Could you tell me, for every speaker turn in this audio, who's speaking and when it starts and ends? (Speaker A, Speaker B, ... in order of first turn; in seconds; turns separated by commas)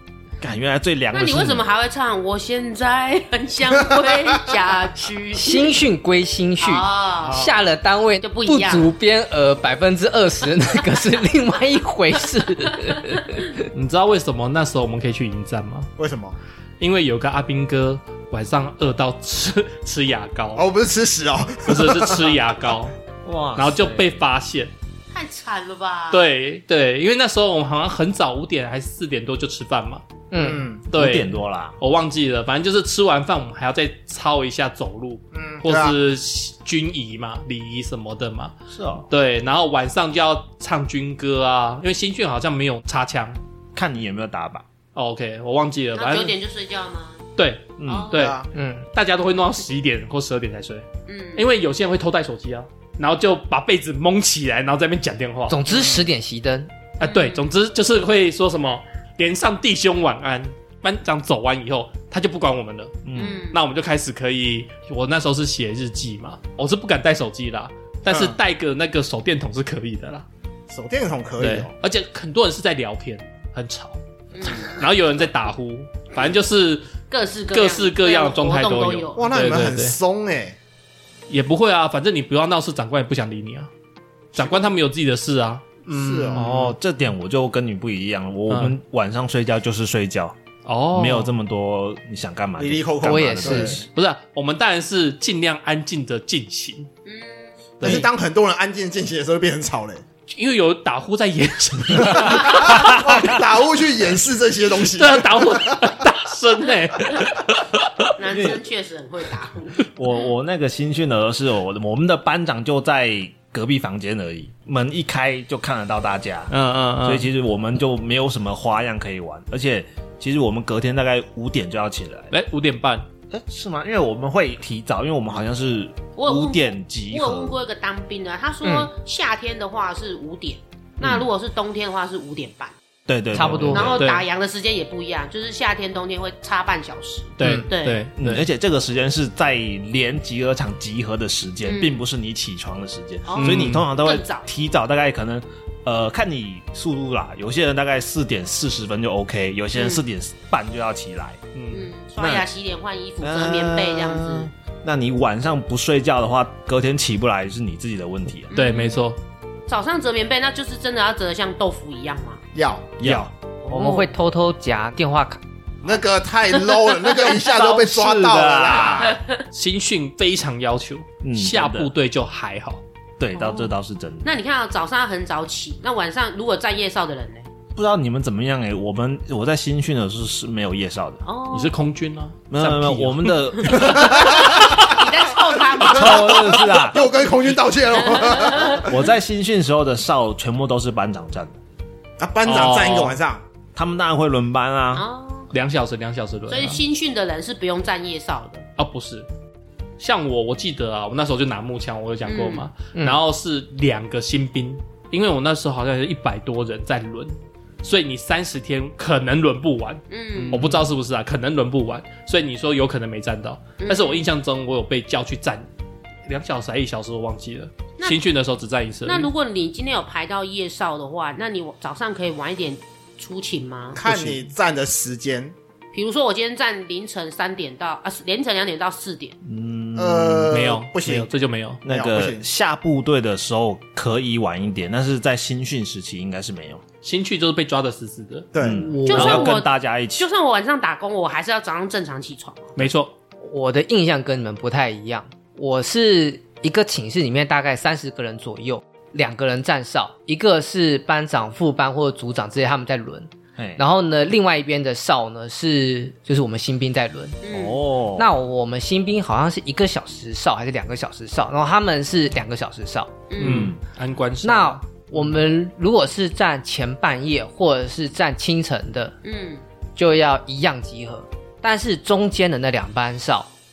Speaker A: 0.4-1.6, Speaker B: 1.1-5.8, Speaker C: 5.3-13.6, Speaker B: 6.6-7.5, Speaker B: 8.2-8.9, Speaker D: 13.7-15.9, Speaker E: 16.0-16.4, Speaker D: 16.8-20.6, Speaker E: 20.6-22.3, Speaker D: 21.6-22.9, Speaker A: 23.2-24.1, Speaker D: 23.6-24.7, Speaker B: 25.1-26.2, Speaker D: 26.1-30.0, Speaker C: 30.3-30.6, Speaker E: 30.4-30.9, Speaker D: 30.9-38.5, Speaker A: 30.9-31.8, Speaker E: 35.3-35.9, Speaker A: 38.7-39.1, Speaker D: 39.1-43.4, Speaker A: 43.7-44.6, Speaker D: 44.9-46.4, Speaker B: 45.9-47.2, Speaker D: 47.4-48.4, Speaker A: 47.8-48.1, Speaker B: 47.9-48.3, Speaker E: 48.1-48.5, Speaker C: 48.5-48.9, Speaker D: 48.9-55.6, Speaker B: 51.0-51.5, Speaker C: 55.5-56.7, Speaker E: 55.7-56.1, Speaker D: 57.0-70.2, Speaker B: 57.0-57.5, Speaker A: 63.0-63.4, Speaker B: 63.1-63.6, Speaker E: 68.0-68.3, Speaker E: 70.7-71.7, Speaker D: 71.4-77.0, Speaker B: 74.3-74.8, Speaker B: 77.1-79.4, Speaker D: 77.5-80.0, Speaker E: 79.2-80.6, Speaker D: 81.3-83.7, Speaker E: 84.3-84.6, Speaker D: 84.3-85.6, Speaker C: 85.9-86.4, Speaker E: 85.9-86.5, Speaker D: 86.3-86.8, Speaker A: 86.3-90.4, Speaker D: 88.5-88.8, Speaker D: 90.6-91.3, Speaker A: 90.9-93.8, Speaker E: 92.6-93.8, Speaker C: 93.0-93.8, Speaker D: 93.9-96.9, Speaker B: 97.0-97.5, Speaker D: 97.8-98.1, Speaker E: 97.8-100.0, Speaker D: 100.3-103.2, Speaker E: 102.0-105.9, Speaker D: 104.9-108.1, Speaker B: 108.2-109.9, Speaker A: 108.2-108.6, Speaker A: 109.9-116.5, Speaker D: 116.5-117.3, Speaker A: 117.0-122.3, Speaker D: 122.3-123.1, Speaker A: 123.3-127.6, Speaker B: 126.2-132.7, Speaker C: 128.6-128.9, Speaker A: 131.0-131.3, Speaker A: 133.1-134.1, Speaker C: 133.3-133.8, Speaker D: 133.5-134.2, Speaker B: 133.7-138.1, Speaker D: 137.4-138.4, Speaker C: 137.4-137.7, Speaker A: 138.2-151.4, Speaker B: 141.6-142.0, Speaker B: 143.3-144.4, Speaker D: 143.4-143.8, Speaker B: 149.8-150.0, Speaker D: 151.5-151.9, Speaker B: 151.7-154.5, Speaker A: 152.2-152.5, Speaker A: 153.2-158.5, Speaker B: 158.5-159.0, Speaker D: 158.5-159.2, Speaker B: 159.7-162.4, Speaker E: 162.5-162.9, Speaker A: 163.0-163.3, Speaker C: 163.7-165.4, Speaker B: 163.7-164.0, Speaker E: 165.8-169.2, Speaker A: 167.1-169.2, Speaker B: 169.0-169.4, Speaker D: 169.5-172.8, Speaker A: 171.2-171.9, Speaker A: 173.2-174.3, Speaker B: 173.3-173.7, Speaker B: 174.2-177.5, Speaker A: 177.7-181.2, Speaker B: 181.2-181.8, Speaker D: 181.5-184.9, Speaker A: 182.5-184.3, Speaker B: 183.6-186.5, Speaker E: 184.0-184.8, Speaker A: 185.8-187.1, Speaker E: 186.0-188.9, Speaker B: 188.0-188.9, Speaker A: 188.8-191.6, Speaker E: 192.2-193.4, Speaker D: 192.4-193.2, Speaker A: 193.7-195.1, Speaker B: 194.9-195.5, Speaker D: 195.5-196.8, Speaker B: 196.5-198.7, Speaker D: 198.8-199.3, Speaker D: 200.0-215.7, Speaker B: 202.2-202.7, Speaker B: 210.1-210.7, Speaker C: 210.5-210.8, Speaker B: 213.8-214.3, Speaker D: 216.3-219.3, Speaker B: 219.0-224.1, Speaker E: 223.9-225.5, Speaker A: 224.1-224.4, Speaker B: 225.9-229.3, Speaker A: 229.4-230.5, Speaker E: 229.9-231.3, Speaker D: 230.5-231.8, Speaker A: 231.8-236.8, Speaker E: 231.8-232.4, Speaker D: 237.0-238.5, Speaker E: 238.5-238.9, Speaker A: 238.6-240.3, Speaker C: 238.9-239.5, Speaker B: 239.0-242.8, Speaker D: 242.8-243.1, Speaker C: 243.4-257.4, Speaker A: 253.6-253.8, Speaker B: 257.4-257.8, Speaker A: 257.5-258.3, Speaker C: 258.1-263.3, Speaker B: 263.3-263.7, Speaker D: 263.4-265.1, Speaker A: 263.4-263.8, Speaker C: 264.4-269.1, Speaker B: 269.2-269.6, Speaker C: 269.9-273.5